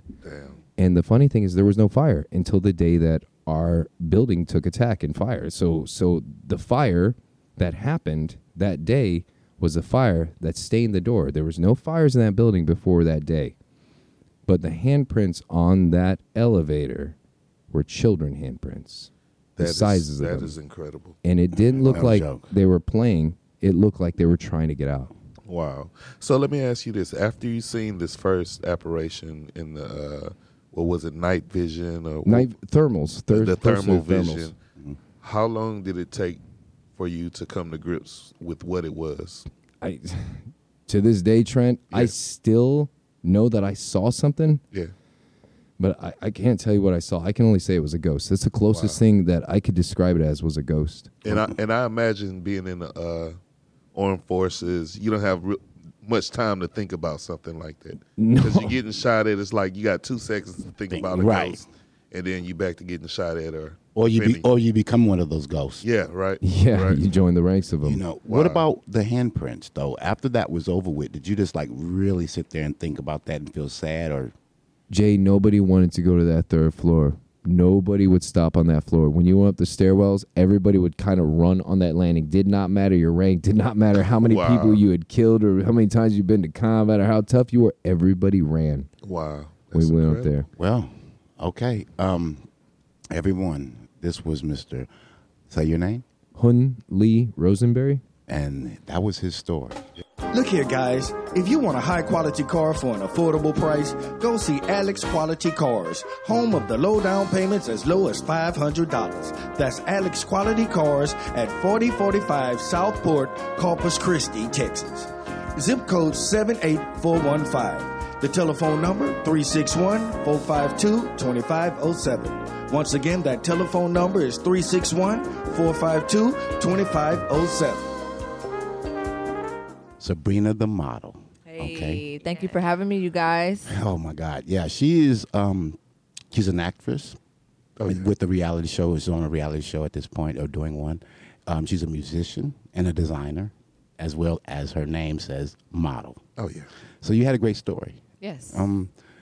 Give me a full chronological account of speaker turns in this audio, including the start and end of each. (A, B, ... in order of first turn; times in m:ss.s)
0:00.2-0:00.6 A
0:00.8-0:13.6 B
0:14.5-0:17.2 B
0:17.7-0:20.5 B
0:19.6-0:21.2 A
0:21.2-0:25.1 B
0:21.6-0:22.5 C
0:25.5-0:32.5 A
0:32.2-0:34.5 B
0:33.3-0:34.6 A
0:35.2-0:36.4 A
0:37.0-0:39.5 A
0:39.8-0:44.6 B
0:45.8-0:51.2 B
0:48.7-0:49.0 A
0:51.2-0:53.4 A
0:53.9-1:04.4 A
0:58.2-0:58.8 B
1:00.9-1:01.7 C
1:04.0-1:05.8 C
1:05.8-1:07.0 A
1:06.4-1:08.0 B
1:07.8-1:14.3 C
1:08.2-1:08.6 A
1:14.9-1:28.9 B
1:24.2-1:24.8 A
1:29.0-1:30.3 A
1:29.7-1:30.5 B
1:30.6-1:32.5 C
1:33.1-1:34.9 C
1:35.5-1:36.0 C
1:36.4-1:38.0 B
1:38.3-1:39.9 C
1:40.3-2:07.9 D
2:10.0-2:12.0 C
2:11.4-2:13.7 E
2:13.7-2:15.8 C
2:16.3-2:17.2 C
2:17.8-2:18.1 A
2:17.9-2:26.2 C
2:26.4-2:26.7 A
2:27.0-2:28.9 C
2:28.2-2:28.7 E